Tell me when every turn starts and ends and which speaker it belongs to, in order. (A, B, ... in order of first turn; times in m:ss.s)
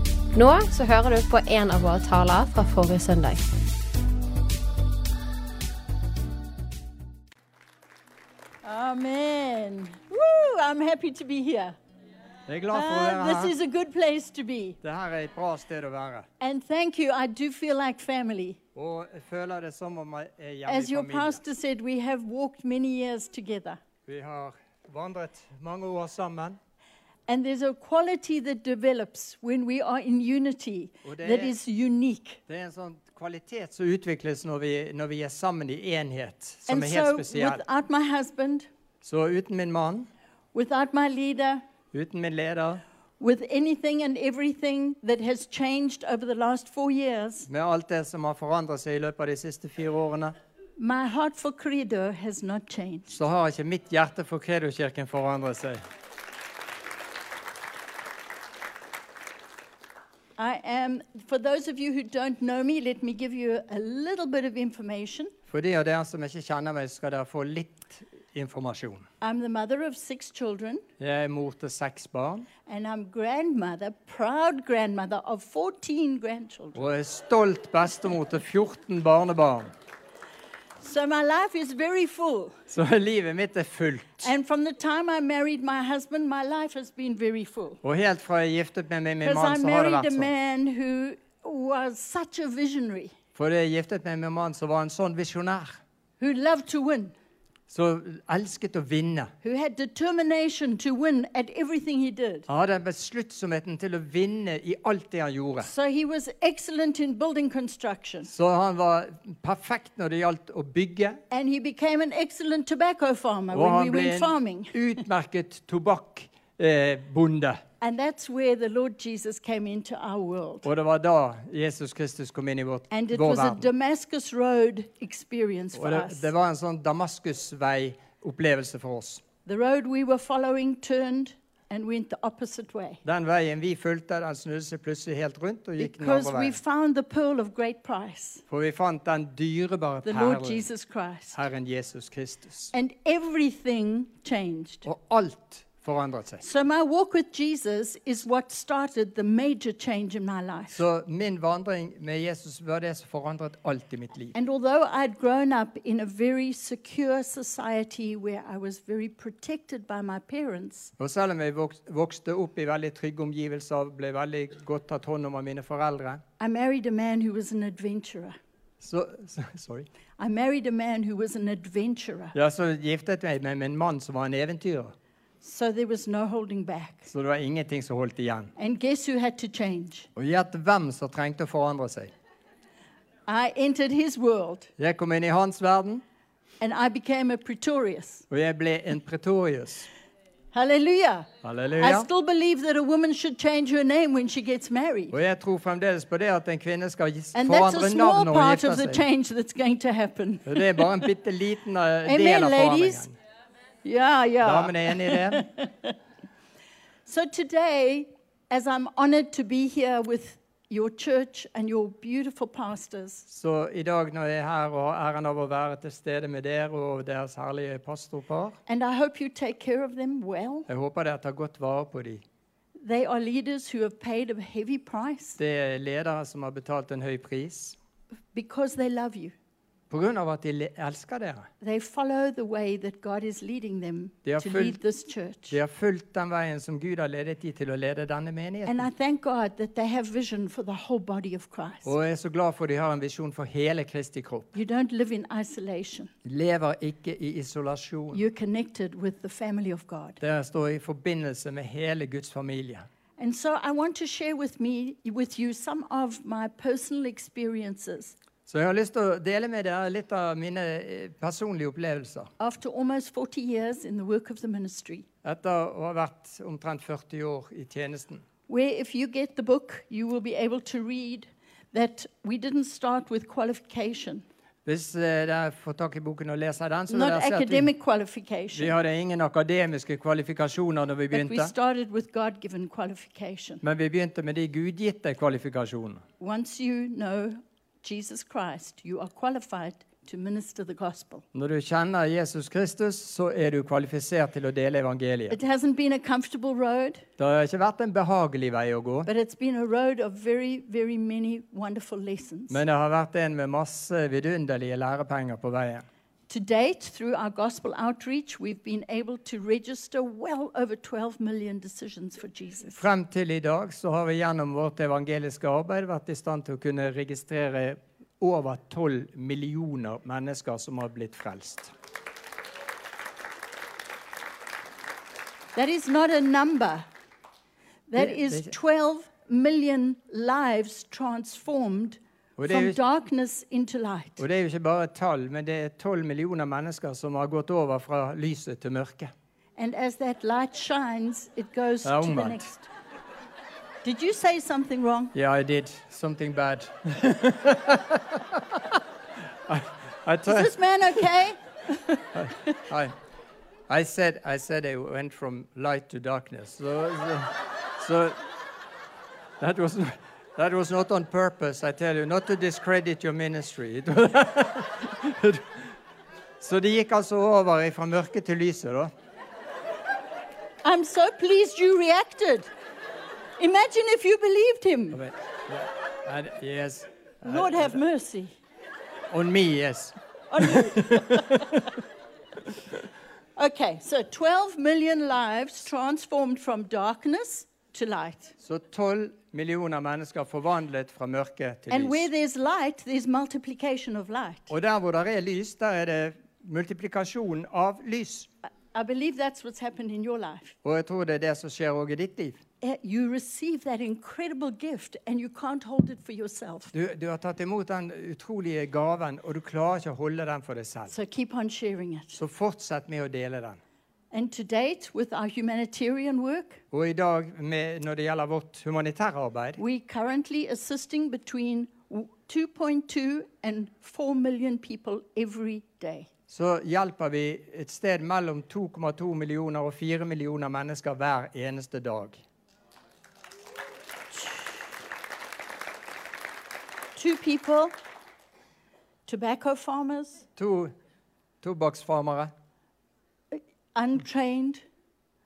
0:00.3-0:03.4 A
0:08.6-0:11.8 B
0:12.5-0:13.5 C
0:12.7-0:14.8 B
0:14.8-0:16.3 C
0:16.4-0:18.6 B
0:18.7-0:21.4 C
0:20.6-0:23.8 B
0:24.0-0:26.6 C
0:27.3-0:32.4 B
0:31.0-0:31.5 C
0:32.5-0:37.6 C
0:36.7-0:38.7 B
0:39.0-0:40.1 C
0:40.5-0:41.6 B
0:41.9-0:42.8 C
0:43.2-0:47.5 B
0:47.5-0:50.3 C
0:50.8-0:53.2 B
0:53.1-0:55.8 C
1:00.4-1:05.3 B
1:05.5-1:09.1 C
1:09.2-1:10.8 B
1:11.0-1:12.5 C
1:12.6-1:16.8 B
1:16.7-1:19.7 C
1:20.8-1:22.6 B
1:22.7-1:24.3 C
1:24.2-1:27.8 B
1:27.8-1:30.3 C
1:29.2-1:33.1 B
1:33.3-1:35.8 C
1:36.2-1:37.1 B
1:37.7-1:39.3 C
1:39.4-1:42.5 B
1:42.5-1:45.7 C
1:45.6-1:48.3 B
1:48.3-1:51.2 C
1:51.3-1:54.8 B
1:53.5-1:57.6 C
1:57.8-2:00.7 B
2:00.6-2:03.7 C
2:02.9-2:06.3 B
2:05.7-2:09.2 C
2:09.4-2:13.0 B
2:13.0-2:16.6 C
2:15.8-2:18.4 B
2:18.5-2:20.6 C
2:20.0-2:21.4 B
2:21.3-2:22.7 C
2:22.7-2:24.8 B
2:24.8-2:26.4 C
2:26.4-2:30.8 B
2:30.7-2:34.3 C
2:34.3-2:40.9 B
2:41.0-2:46.2 C
2:46.4-2:48.4 B
2:48.8-2:49.9 C
2:50.2-2:52.3 B
2:52.3-2:54.9 C
2:55.4-2:57.1 B
2:57.1-2:58.5 C
2:58.6-3:00.1 B
3:00.2-3:02.1 C
3:03.3-3:04.7 B
3:04.8-3:06.0 C
3:06.6-3:08.2 B
3:08.3-3:09.9 C
3:10.5-3:15.1 B
3:11.4-3:12.1 C
3:15.1-3:19.0 C
3:17.3-3:21.0 B
3:20.4-3:23.1 C
3:22.0-3:23.1 B
3:23.8-3:25.9 B
3:24.4-3:25.4 C
3:27.0-3:33.3 B
3:33.3-3:38.6 C
3:38.7-3:40.7 B
3:40.7-3:42.2 C
3:42.8-3:45.4 B
3:45.4-3:47.8 C
3:48.3-3:49.3 B
3:49.9-3:51.5 C
3:51.6-3:55.6 B
3:54.2-3:54.8 C
3:55.5-3:58.8 C
3:58.6-4:01.9 B
4:01.8-4:04.5 C
4:04.5-4:06.1 B
4:06.2-4:08.2 C
4:08.1-4:10.2 B
4:10.2-4:12.9 C
4:13.2-4:18.1 B
4:18.5-4:22.3 C
4:22.4-4:25.0 B
4:25.2-4:28.2 C
4:28.5-4:34.2 B
4:34.6-4:37.7 C
4:36.9-4:38.7 B
4:38.5-4:41.5 C
4:41.1-4:43.6 B
4:43.6-4:46.0 C
4:46.2-4:51.2 B
4:51.3-4:55.4 C
4:55.3-4:57.1 B
4:57.2-4:59.1 C
4:59.0-5:02.6 B
5:02.5-5:05.8 C
5:06.3-5:12.8 B
5:12.8-5:21.7 C
5:25.5-5:26.8 B
5:27.9-5:34.2 B
5:28.0-5:28.5 C
5:32.4-5:32.8 C
5:34.2-5:39.1 C
5:39.6-5:42.7 B
5:41.8-5:42.5 C
5:43.8-5:45.1 B
5:45.1-5:48.8 C
5:49.4-5:50.6 C
5:50.2-5:52.6 B
5:52.1-5:52.9 C
5:53.7-5:58.2 C
5:59.4-6:05.7 C
6:06.4-6:08.9 C
6:10.6-6:12.5 B
6:13.4-6:15.0 B
6:14.9-6:17.8 C
6:17.2-6:18.4 B
6:19.1-6:21.8 C
6:20.3-6:21.4 B
6:23.4-6:28.3 B
6:28.4-6:32.1 C
6:31.7-6:34.5 B
6:34.5-6:38.3 C
6:38.7-6:40.6 B
6:40.6-6:42.4 C
6:42.6-6:46.7 B
6:46.7-6:50.9 C
6:50.9-6:52.2 B
6:52.2-6:53.6 C
6:54.1-6:56.6 B
6:56.7-6:59.6 C
6:59.6-7:06.1 B
7:06.3-7:12.2 C
7:14.1-7:14.4 B
7:16.9-7:17.7 B
7:19.1-7:20.2 B
7:20.4-7:20.7 C
7:21.4-7:22.3 C
7:23.3-7:24.6 B